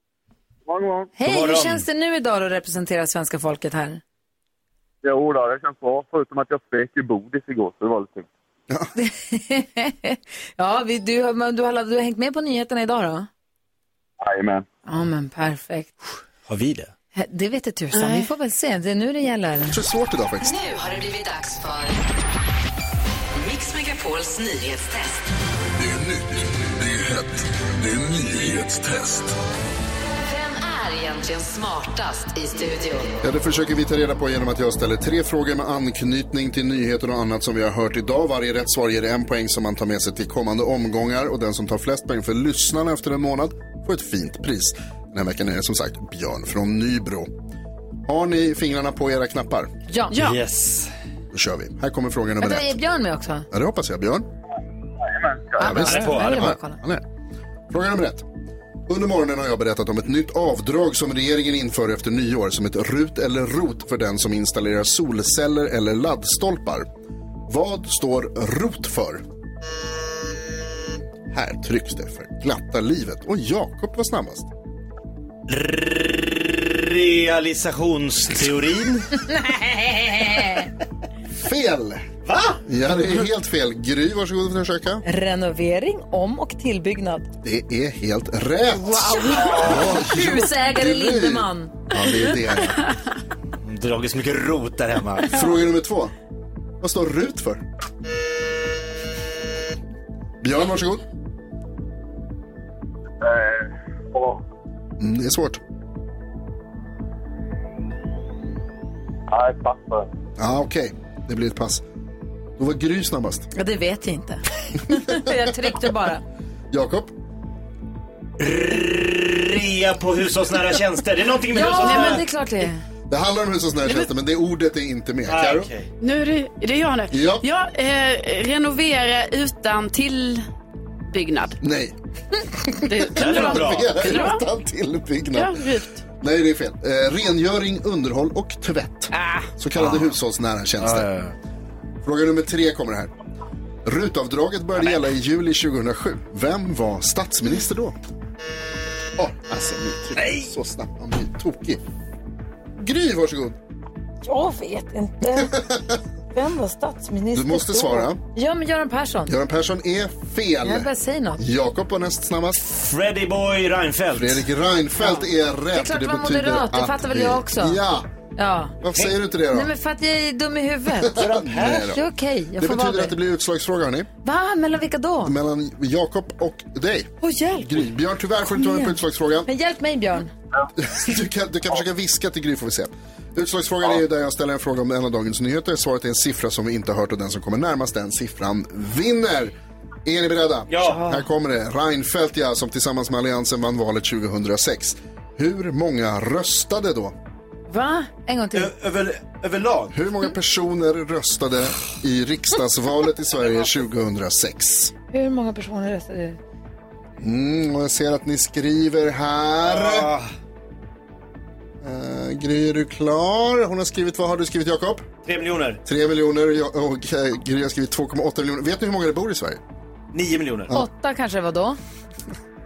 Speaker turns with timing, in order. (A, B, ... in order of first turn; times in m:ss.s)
0:00.6-0:01.1 A
0:01.2-0:04.0 B
0:01.2-0:01.8 C
0:05.0-0:08.3 A
0:08.9-0:13.3 B
0:14.2-0:14.6 A
0:14.8-0:16.0 B
0:16.5-0:16.9 C
0:17.1-0:19.8 B
0:17.9-0:18.2 D
0:19.7-0:20.6 E
0:20.4-0:22.0 F
0:23.4-0:25.2 F
0:25.8-0:29.4 G
0:30.2-0:33.2 F
0:33.2-0:47.3 E
0:48.0-0:49.7 E
0:49.9-0:50.2 B
0:50.1-0:50.4 D
0:50.1-0:50.9 C
0:51.3-0:52.8 E
0:52.4-0:53.5 B
0:53.5-0:54.3 E
0:55.0-0:55.7 A
0:55.6-0:56.8 B
0:55.6-0:57.0 E
0:55.7-0:56.5 C
0:57.7-0:58.2 E
0:58.9-1:06.9 E
1:07.5-1:09.2 E
1:11.3-1:14.5 E
1:15.5-1:20.5 C
1:20.2-1:20.7 B
1:21.3-1:22.0 E
1:22.2-1:22.6 C
1:22.6-1:25.0 E
1:25.0-1:27.3 B
1:27.4-1:32.8 E
1:28.7-1:31.7 B
1:33.6-1:35.4 C
1:35.3-1:36.1 E
1:36.8-1:37.6 E
1:40.4-1:41.0 E
1:43.2-1:44.4 A
1:45.0-1:45.6 E
1:49.3-1:50.1 A
1:50.4-1:51.8 E
1:52.6-1:53.5 E
1:53.5-1:56.2 B
1:56.7-1:57.1 E
1:58.4-2:02.2 C
2:01.5-2:02.8 B
2:01.6-2:02.2 D
2:03.1-2:05.7 E
2:05.3-2:05.9 C
2:06.0-2:10.4 D
2:07.1-2:07.4 E
2:11.1-2:11.6 D
2:11.6-2:12.0 E
2:12.8-2:15.7 E
2:12.8-2:14.4 D
2:13.2-2:14.0 C
2:15.3-2:16.0 D
2:16.2-2:21.1 E
2:19.1-2:19.5 D
2:19.8-2:20.1 C
2:20.8-2:21.4 C
2:22.0-2:23.1 E
2:23.8-2:28.0 E
2:29.2-2:31.8 E
2:32.8-2:33.6 E
2:34.2-2:35.6 B
2:35.3-2:36.0 E
2:36.3-2:39.3 B
2:37.3-2:38.2 E
2:39.3-2:42.6 E
2:40.6-2:41.4 B
2:42.6-2:44.4 C
2:44.1-2:48.1 E
2:45.0-2:47.8 B
2:48.4-2:48.8 B
2:48.8-2:49.7 E
2:49.5-2:53.1 B
2:51.0-2:52.0 E
2:52.6-2:54.1 E
2:54.2-2:55.4 B
2:55.2-2:59.5 E
2:57.2-2:57.8 B
2:58.5-3:00.3 B
3:00.8-3:17.1 E
3:10.7-3:11.0 C
3:10.8-3:11.2 B
3:17.7-3:18.7 B
3:18.5-3:20.0 C
3:19.9-3:24.9 E
3:25.1-3:26.4 B
3:27.2-3:30.1 E
3:29.6-3:30.3 C
3:31.8-3:35.1 E
3:35.2-3:35.8 C
3:35.8-3:39.6 E
3:40.1-3:40.7 C
3:40.7-3:41.8 B